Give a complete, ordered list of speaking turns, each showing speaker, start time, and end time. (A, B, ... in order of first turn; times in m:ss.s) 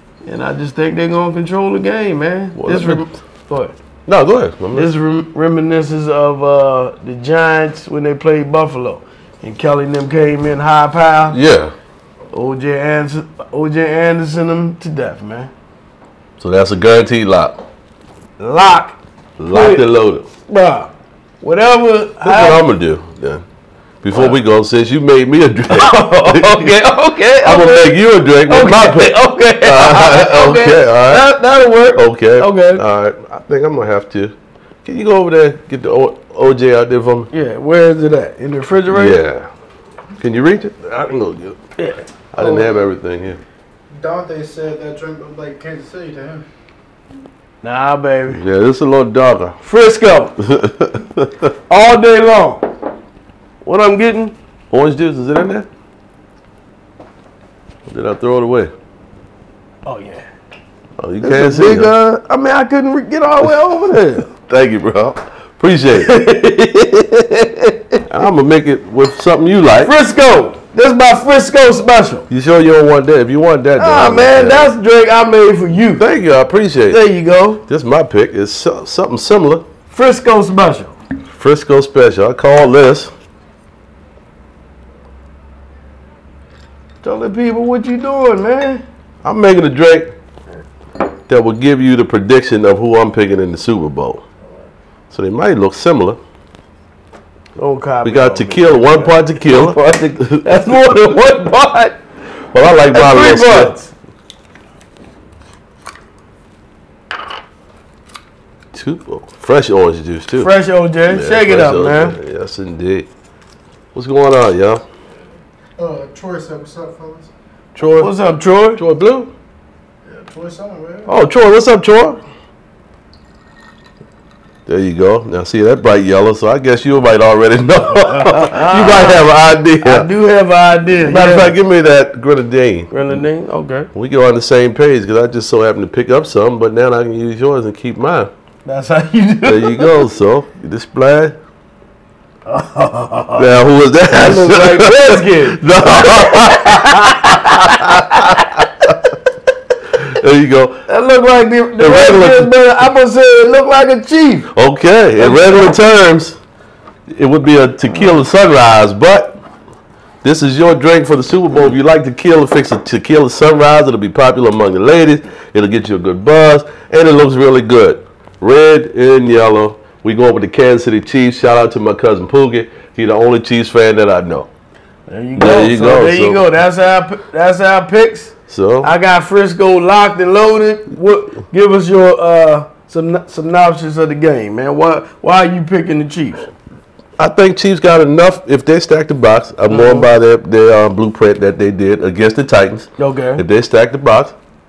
0:00.2-0:03.7 A
0:02.5-0:03.1 B
0:04.0-0:04.9 B
0:04.7-0:11.4 A
0:11.3-0:11.7 B
0:12.3-0:15.5 A
0:16.4-0:17.6 B
0:18.4-0:19.0 A
0:19.4-0:20.3 B
0:19.5-0:19.8 A
0:20.5-0:22.6 A
0:22.2-0:23.4 B
0:24.0-0:26.8 B
0:24.1-0:24.4 A
0:25.7-0:32.8 A
0:27.4-0:31.3 B
0:31.9-0:37.3 B
0:37.3-0:39.2 A
0:38.9-0:39.5 B
0:40.2-0:41.6 B
0:41.8-0:42.1 A
0:42.3-0:43.4 B
0:42.4-0:42.8 C
0:43.9-0:46.4 C
0:47.6-0:48.4 A
0:48.3-0:49.6 B
0:49.6-0:50.4 A
0:50.4-0:51.5 B
0:51.7-0:52.7 A
0:53.6-0:54.3 A
0:54.7-0:55.7 B
0:57.9-0:58.7 B
0:59.8-1:00.3 A
1:01.0-1:01.9 B
1:01.2-1:04.3 A
1:03.4-1:06.1 B
1:05.9-1:08.0 A
1:08.1-1:09.9 B
1:09.8-1:12.3 A
1:12.3-1:14.7 B
1:13.8-1:16.1 A
1:16.0-1:17.0 B
1:16.9-1:17.6 A
1:17.7-1:19.6 B
1:19.9-1:21.0 A
1:21.3-1:23.1 B
1:27.0-1:28.8 A
1:29.2-1:30.1 B
1:31.3-1:34.2 B
1:35.1-1:36.2 B
1:37.6-1:42.0 A
1:38.0-1:41.1 B
1:42.5-1:43.8 B
1:42.9-1:43.9 A
1:48.7-1:50.5 B
1:50.4-1:52.2 A
1:51.0-1:53.1 B
1:53.9-1:54.8 B
1:55.8-1:57.3 C
1:57.7-1:58.1 B
1:58.0-1:58.8 A
1:58.8-1:59.3 B
2:00.0-2:01.2 C
2:01.1-2:02.2 B
2:04.6-2:10.1 B
2:08.0-2:09.3 A
2:09.8-2:11.6 A
2:11.0-2:13.1 B
2:12.9-2:13.9 A
2:13.9-2:18.3 B
2:18.6-2:20.0 A
2:19.4-2:21.4 B
2:22.4-2:28.6 A
2:23.4-2:28.9 B
2:29.9-2:30.8 B
2:30.9-2:34.5 A
2:31.8-2:32.5 B
2:34.5-2:36.4 B
2:35.2-2:35.7 A
2:37.1-2:39.4 B
2:40.2-2:54.5 B
2:55.1-3:06.5 A
2:55.3-2:56.4 B
2:58.5-2:58.9 B
3:07.2-3:14.4 B
3:09.7-3:10.1 A
3:13.0-3:13.4 A